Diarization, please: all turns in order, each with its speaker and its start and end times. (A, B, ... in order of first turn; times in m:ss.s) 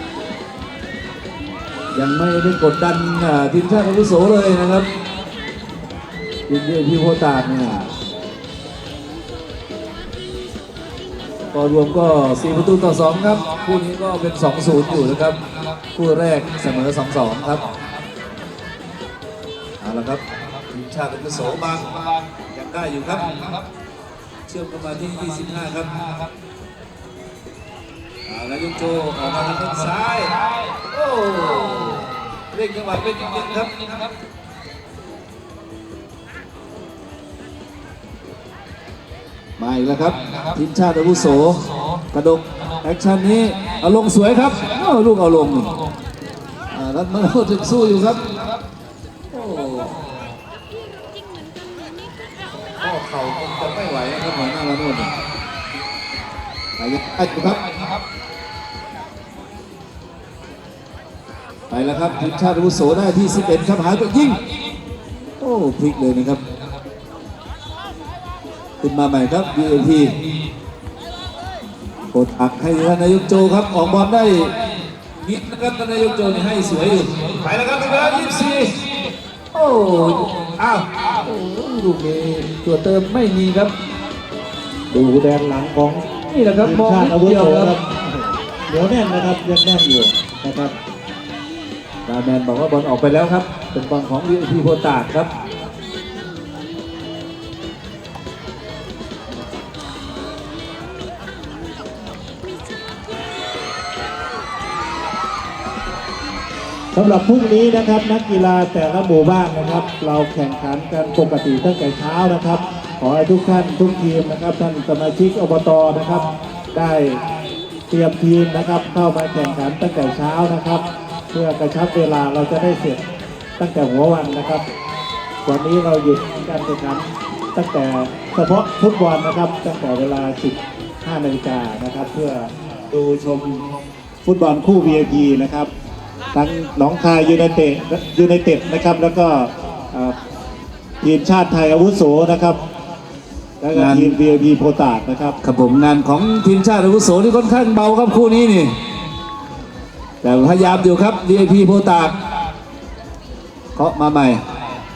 0:02.0-0:04.9 A
0:06.5-0:07.9 A
0:11.5-0:15.4 A
0:16.0-0:17.7 A
0:19.8-0:21.9 A
0:22.5-0:23.6 A
0:24.5-0:25.9 A
0:28.3-0:33.9 A
0:39.6-0:45.7 A
0:46.7-0:48.3 A
0:49.3-0:50.1 A
0:52.6-0:55.1 A
0:56.8-0:57.6 A
1:01.7-1:04.4 A
1:05.4-1:06.4 A
1:08.8-1:10.2 A
1:12.1-1:14.5 A
1:15.2-1:18.8 A
1:19.5-1:23.7 A
1:24.9-1:26.1 B
1:26.3-1:27.7 A
1:26.6-1:30.7 B
1:32.1-1:35.3 A
1:46.9-1:57.2 B
1:57.9-2:03.0 B
2:03.6-2:04.6 B
2:05.4-2:13.6 B
2:14.2-2:15.7 B
2:16.3-2:20.2 B
2:21.0-2:22.6 B
2:23.6-2:25.4 B
2:23.7-2:24.2 A
2:25.4-2:28.7 A
2:30.2-2:32.2 A
2:33.8-2:34.4 A